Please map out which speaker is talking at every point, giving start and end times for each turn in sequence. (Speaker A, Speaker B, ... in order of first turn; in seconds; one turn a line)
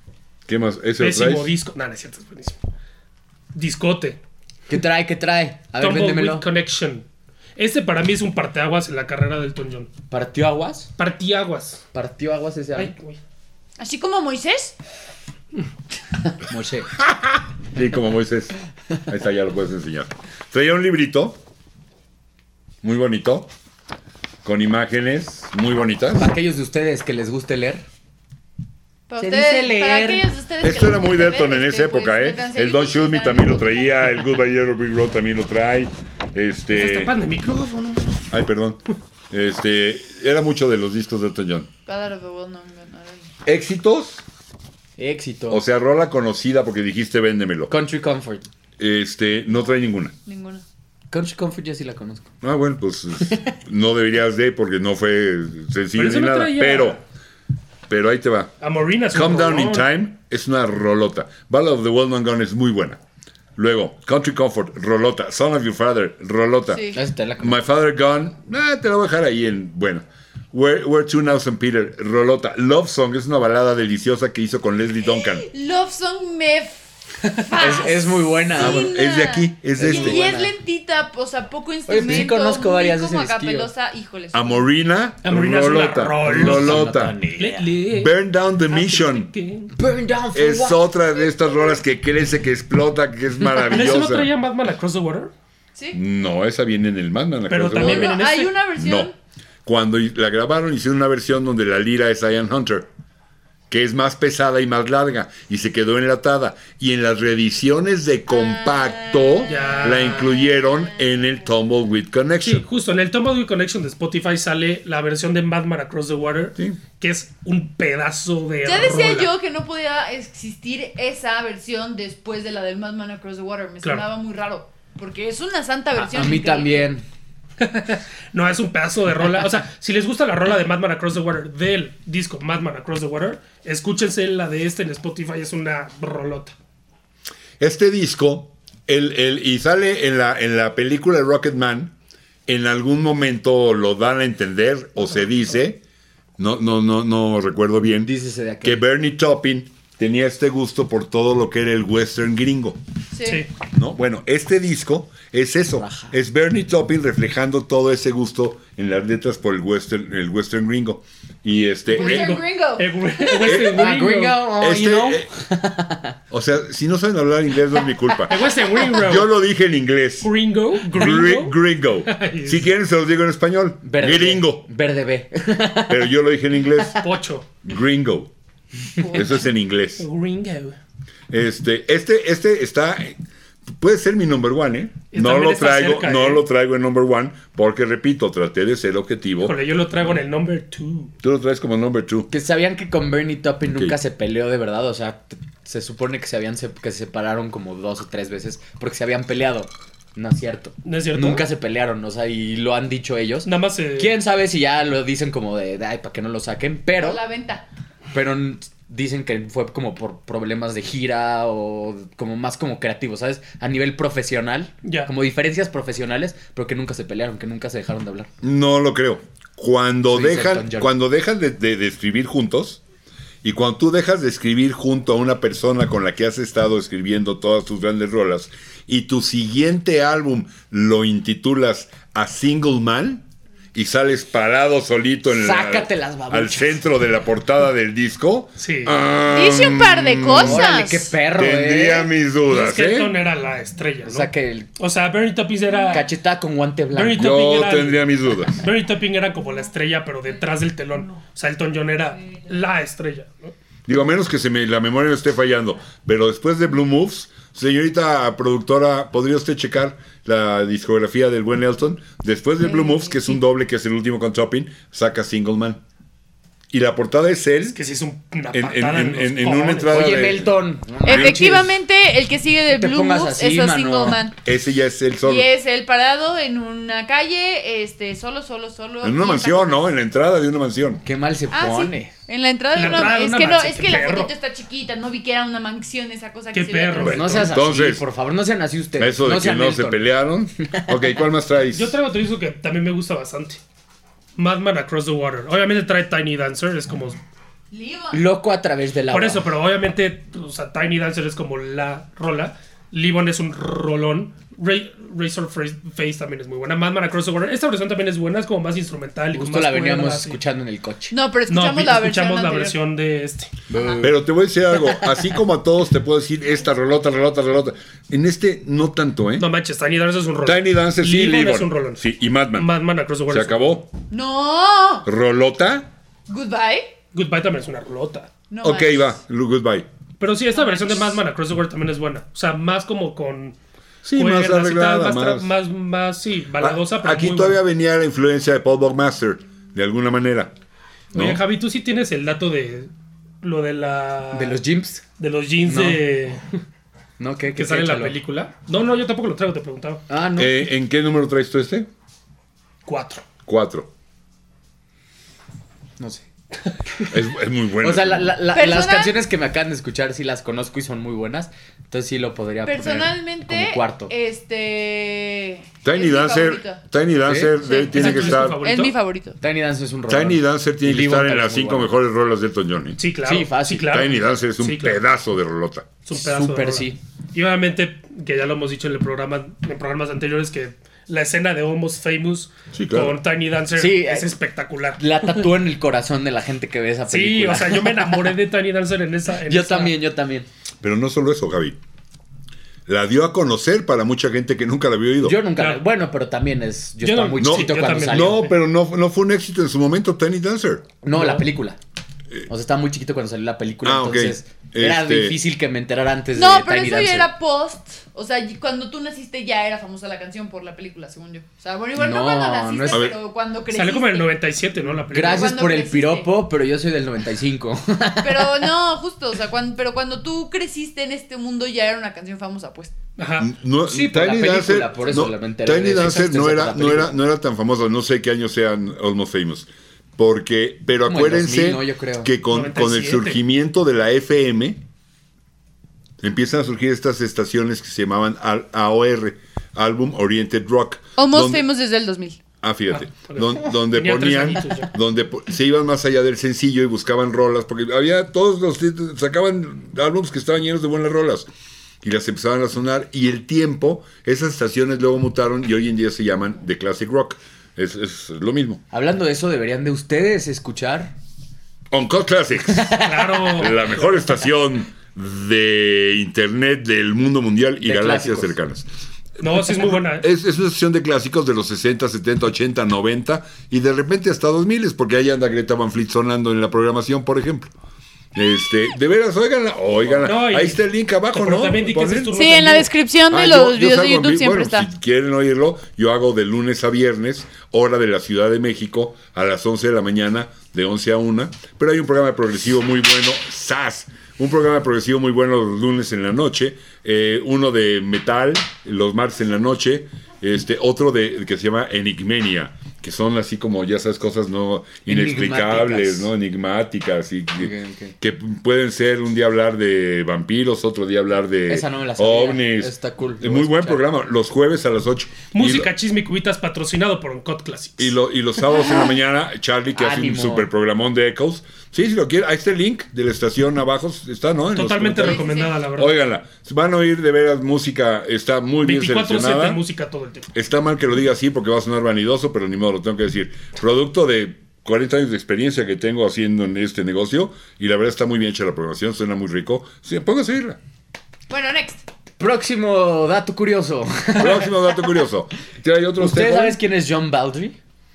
Speaker A: 0.5-1.5
Speaker B: 1.0-2.6
Speaker B: 3.5-4.2
Speaker C: 4.7-6.5
Speaker B: 5.8-7.0
Speaker B: 7.6-9.9
Speaker C: 10.1-10.9
Speaker B: 11.0-11.8
Speaker C: 11.9-12.9
Speaker B: 12.8-13.2
Speaker D: 13.8-14.7
Speaker C: 16.4-16.9
Speaker A: 17.7-18.5
Speaker A: 19.1-21.4
Speaker A: 22.8-23.5
Speaker A: 24.4-26.3
Speaker C: 26.1-27.8
Speaker D: 29.1-33.9
Speaker C: 29.2-30.2
Speaker A: 30.6-37.1
Speaker B: 36.7-38.3
Speaker A: 38.3-38.8
Speaker A: 39.3-41.7
Speaker D: 41.9-43.3
Speaker A: 43.5-44.2
Speaker C: 45.0-45.6
Speaker A: 45.5-47.7
Speaker C: 47.7-48.5
Speaker A: 48.8-50.1
Speaker D: 50.2-50.6
Speaker C: 51.1-52.3
Speaker A: 52.4-57.0
Speaker B: 56.0-57.0
Speaker A: 57.9-58.5
Speaker B: 58.6-59.9
Speaker A: 59.1-63.0
Speaker A: 63.5-75.5
Speaker D: 66.7-67.0
Speaker C: 66.9-67.6
Speaker D: 75.1-84.7
Speaker C: 77.5-78.9
Speaker A: 78.5-80.2
Speaker C: 79.8-80.5
Speaker C: 81.9-83.7
Speaker A: 84.3-87.1
Speaker B: 85.2-88.1
Speaker C: 86.2-87.7
Speaker A: 87.9-89.3
Speaker B: 88.7-89.7
Speaker C: 89.7-90.8
Speaker A: 90.3-94.3
Speaker D: 91.1-91.8
Speaker B: 93.5-95.3
Speaker A: 95.9-98.2
Speaker B: 97.5-98.5
Speaker D: 97.8-99.1
Speaker A: 98.8-99.1
Speaker A: 99.6-102.9
Speaker A: 103.7-112.6
Speaker D: 108.3-110.8
Speaker B: 109.5-110.3
Speaker B: 112.4-119.3
Speaker D: 118.6-126.9
Speaker C: 126.0-127.0
Speaker B: 127.6-136.5
Speaker A: 137.6-141.9
Speaker A: 142.5-145.8
Speaker A: 146.4-148.1
Speaker C: 148.0-148.8
Speaker A: 148.6-152.8
Speaker D: 153.1-153.4
Speaker B: 153.2-153.5
Speaker A: 153.7-162.4
Speaker C: 155.8-156.1
Speaker D: 161.9-163.6
Speaker B: 161.9-164.4
Speaker A: 163.4-163.9
Speaker C: 163.6-166.2
Speaker A: 164.6-165.3
Speaker A: 166.3-170.3
Speaker B: 168.3-169.3
Speaker B: 170.2-172.7
Speaker A: 170.9-174.6
Speaker C: 173.8-176.1
Speaker A: 175.9-177.0
Speaker B: 176.9-177.5
Speaker A: 177.6-178.3
Speaker D: 179.0-179.3
Speaker A: 179.1-180.1
Speaker B: 180.0-180.8
Speaker A: 181.3-183.2
Speaker A: 183.8-189.6
Speaker B: 185.1-186.4
Speaker B: 189.4-191.1
Speaker A: 191.2-192.3
Speaker C: 192.3-207.2
Speaker B: 200.8-201.4
Speaker B: 203.4-204.2
Speaker D: 207.0-207.6
Speaker C: 208.1-218.3
Speaker B: 214.8-215.1
Speaker A: 218.4-222.8
Speaker C: 220.1-220.9
Speaker A: 223.4-233.2
Speaker A: 233.7-240.7
Speaker C: 235.3-236.8
Speaker B: 238.6-238.9
Speaker D: 239.2-241.1
Speaker C: 240.3-242.1
Speaker A: 241.3-243.1
Speaker B: 242.5-246.1
Speaker C: 244.0-244.7
Speaker C: 245.9-247.3
Speaker B: 246.9-253.5
Speaker A: 247.2-248.6
Speaker A: 253.9-265.8
Speaker D: 262.6-263.4
Speaker A: 266.7-267.8
Speaker B: 267.7-270.0
Speaker A: 268.5-271.5
Speaker C: 269.9-271.7
Speaker D: 271.1-274.4
Speaker C: 272.7-274.2
Speaker A: 274.4-275.5
Speaker D: 275.2-279.9
Speaker A: 279.0-281.0
Speaker C: 281.0-282.1
Speaker D: 281.5-287.4
Speaker B: 282.7-284.3
Speaker B: 286.5-287.5
Speaker A: 286.9-288.0
Speaker C: 287.1-290.0
Speaker A: 289.0-292.0
Speaker C: 290.7-291.1
Speaker B: 291.7-293.6
Speaker B: 294.4-297.2
Speaker D: 297.7-298.2
Speaker C: 298.1-299.4
Speaker B: 299.1-310.4
Speaker C: 309.3-311.1
Speaker D: 311.1-312.8
Speaker B: 311.5-313.5
Speaker C: 313.7-314.2
Speaker A: 314.0-319.5
Speaker B: 319.4-323.7
Speaker A: 320.4-322.7
Speaker A: 323.3-323.9
Speaker D: 324.1-325.1
Speaker A: 325.0-325.9
Speaker D: 326.3-326.9
Speaker B: 327.1-328.3
Speaker D: 328.5-329.1
Speaker A: 328.6-329.9
Speaker B: 330.2-333.6
Speaker D: 330.6-330.9
Speaker A: 334.0-335.5
Speaker B: 334.1-337.6
Speaker A: 336.6-340.5
Speaker B: 341.1-342.9
Speaker A: 341.1-341.4
Speaker B: 343.4-344.6
Speaker C: 344.3-345.0
Speaker B: 345.2-346.4
Speaker C: 345.7-346.0
Speaker C: 347.2-348.1
Speaker B: 347.6-350.0
Speaker C: 350.1-350.7
Speaker A: 350.4-351.9
Speaker B: 352.9-353.2
Speaker A: 353.4-353.9
Speaker C: 356.0-356.2
Speaker A: 357.1-358.4
Speaker C: 357.8-364.1
Speaker D: 358.5-359.2
Speaker D: 362.6-366.8
Speaker A: 365.8-368.6
Speaker C: 367.2-367.6
Speaker D: 367.6-369.4
Speaker B: 367.9-368.9
Speaker C: 369.4-371.9
Speaker A: 370.1-373.0
Speaker B: 373.0-375.0
Speaker C: 373.2-373.9
Speaker A: 373.9-375.9
Speaker B: 376.0-385.4
Speaker C: 376.1-377.0
Speaker A: 382.7-383.1
Speaker C: 383.8-384.3
Speaker C: 385.0-388.1
Speaker B: 387.1-389.9
Speaker C: 389.5-390.5
Speaker A: 390.8-391.8
Speaker A: 392.9-395.4
Speaker C: 395.2-398.5
Speaker B: 395.6-395.8
Speaker B: 397.0-398.5
Speaker A: 397.4-400.9
Speaker C: 401.0-401.8
Speaker B: 401.1-401.4
Speaker C: 402.5-407.3
Speaker A: 403.8-405.4
Speaker D: 406.3-414.3
Speaker C: 411.9-413.1
Speaker A: 412.9-413.2
Speaker B: 413.7-415.5
Speaker C: 415.1-418.7
Speaker D: 415.2-416.3
Speaker D: 418.2-422.9
Speaker B: 423.2-423.5
Speaker A: 423.4-434.8
Speaker C: 423.8-427.1
Speaker C: 431.1-432.3
Speaker B: 432.5-433.4
Speaker A: 436.2-441.6
Speaker D: 441.2-442.4
Speaker A: 442.6-451.5
Speaker B: 442.9-444.9
Speaker A: 452.0-458.8
Speaker C: 458.9-461.1
Speaker A: 461.9-463.0
Speaker C: 462.7-463.7
Speaker B: 463.0-464.0
Speaker A: 463.5-468.9
Speaker C: 467.8-468.6
Speaker B: 469.4-470.2
Speaker A: 470.2-477.7
Speaker A: 478.3-482.4
Speaker B: 480.2-482.9
Speaker D: 482.3-484.9
Speaker A: 483.3-515.9
Speaker C: 505.1-506.3
Speaker C: 507.6-508.1
Speaker C: 511.7-514.1
Speaker B: 515.5-518.1
Speaker A: 518.0-529.8
Speaker C: 520.0-520.7
Speaker B: 524.7-526.1
Speaker D: 525.2-525.7
Speaker B: 528.8-530.5
Speaker A: 530.5-540.8
Speaker D: 541.5-542.0
Speaker C: 542.4-545.1
Speaker A: 544.4-546.8
Speaker C: 546.2-547.7